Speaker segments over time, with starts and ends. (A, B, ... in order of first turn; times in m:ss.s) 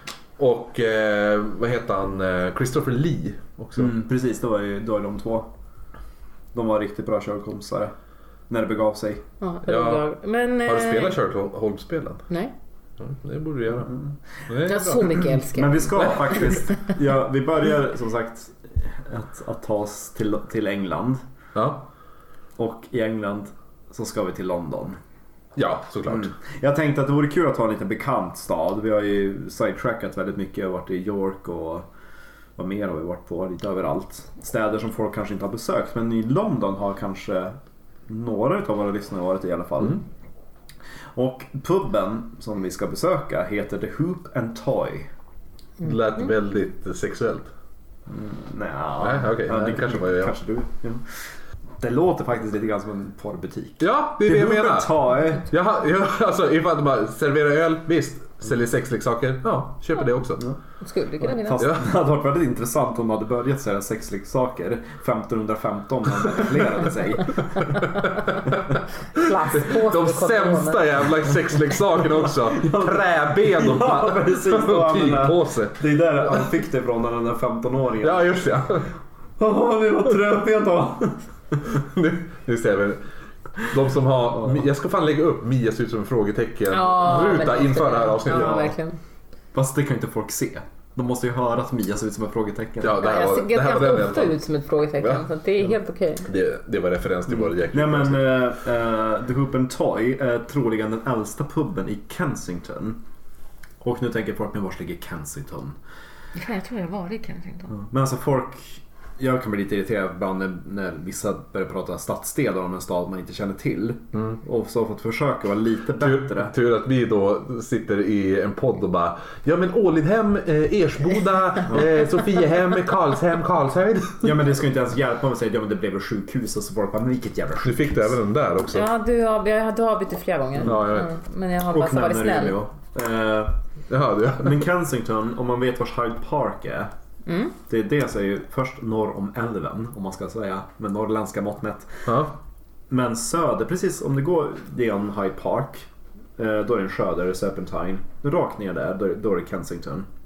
0:00.4-0:04.0 A
0:03.8-0:05.5 B
0:06.5-0:07.9 B
0:08.5-0:09.2 B
0:09.4-0:11.2 C
0:09.7-0:10.1 A
0:10.6-0:12.3 A
0:13.0-0:15.4 A
0:13.9-0:14.2 B
0:14.6-0:16.4 C
0:15.5-0:21.2 B
0:16.0-0:16.5 A
0:21.6-0:21.9 A
0:22.6-0:25.0 B
0:25.6-0:26.3 A
0:26.1-0:31.9 B
0:32.6-0:37.6 B
0:38.1-0:40.0 B
0:41.2-0:45.1 B
0:45.8-0:47.5 A
0:48.1-0:51.0 B
0:49.0-0:50.4 A
0:51.8-0:55.5 B
0:53.8-1:00.4 A
1:00.8-1:01.7 C
1:01.2-1:07.8 B
1:01.6-1:01.8 A
1:07.9-1:16.5 A
1:09.1-1:10.9 C
1:12.4-1:18.6 B
1:18.0-1:18.9 A
1:19.4-1:21.2 B
1:21.7-1:23.0 A
1:23.6-1:28.7 A
1:26.7-1:29.0 C
1:28.3-1:28.7 B
1:29.5-1:33.0 B
1:32.8-1:34.4 A
1:33.0-1:36.3 C
1:35.0-1:35.3 A
1:36.3-1:38.5 A
1:37.3-1:43.0 B
1:43.8-1:45.8 B
1:46.4-1:47.7 C
1:47.7-1:56.5 B
1:56.0-2:04.3 A
2:04.2-2:08.2 B
2:07.6-2:08.9 A
2:08.7-2:12.6 C
2:10.6-2:11.1 A
2:11.7-2:13.6 B
2:13.9-2:14.6 A
2:14.4-2:16.9 B
2:17.3-2:17.6 C
2:17.7-2:22.1 B
2:22.1-2:22.4 A
2:22.9-2:30.1 B